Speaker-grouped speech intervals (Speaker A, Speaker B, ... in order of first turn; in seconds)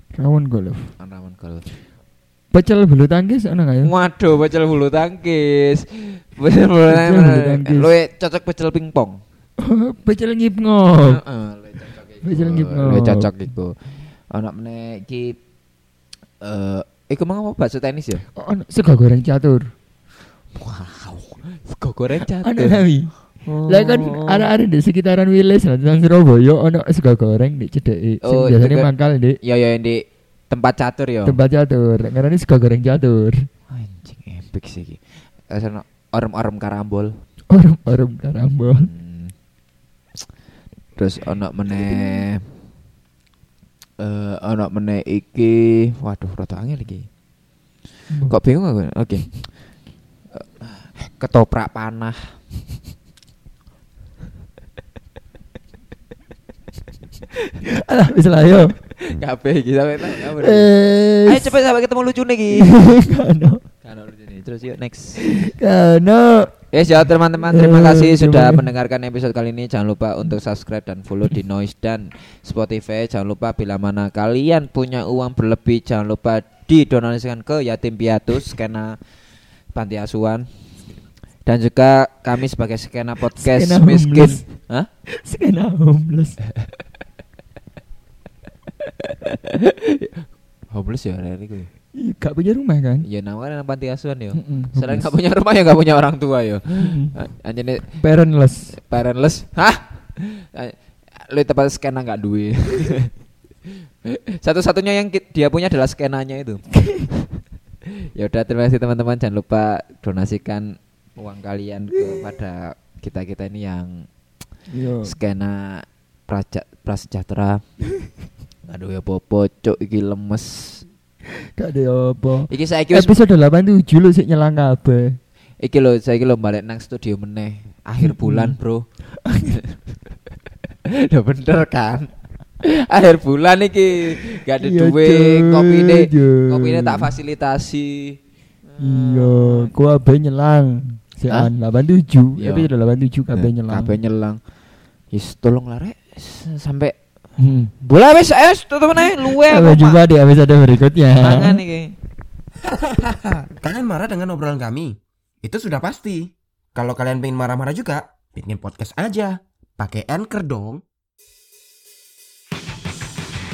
Speaker A: 0.1-0.9, 2.5-3.9, 6.8-7.9, 9.6-11.2, 12.2-13.3, 18.3-19.7, 22.2-23.1, 23.6-29.4, 31.2-33.5, 37.5-38.9, 57.6-58.7, 60.4-61.5, 62.5-63.6, 65.2-66.5, 67.5-68.6, 83.3-84.5, 85.1-86.4, 92.0-93.0, 94.3-95.1, 96.8-97.2, 97.9-98.8, 106.8-107.1, 114.7-115.1, 121.4-125.2, 128.0-128.6, 129.2-129.6, 134.6-137.1, 138.8-143.9, 147.4-147.7, 149.2-151.6
Speaker B: 1.0-1.6, 3.8-9.2, 11.0-15.4, 16.4-18.2, 20.5-22.9, 23.4-24.5, 28.2-28.9, 29.4-31.4, 33.7-37.1, 38.7-39.3, 41.0-42.5, 44.0-47.1, 48.3-49.5, 50.3-52.3, 58.9-60.7, 61.2-62.7, 63.8-65.2, 66.7-79.0, 79.7-80.5, 81.4-84.9, 88.8-91.7, 93.0-97.9, 98.7-103.1, 104.0-107.2, 107.9-114.1, 115.0-117.6, 118.7-120.8, 122.5-123.1, 125.6-128.8, 129.5-129.8, 130.8-139.7, 142.4-142.7, 143.3-144.4, 145.1-146.9, 147.8-150.0, 151.2-151.9
Speaker C: 152.6-160.8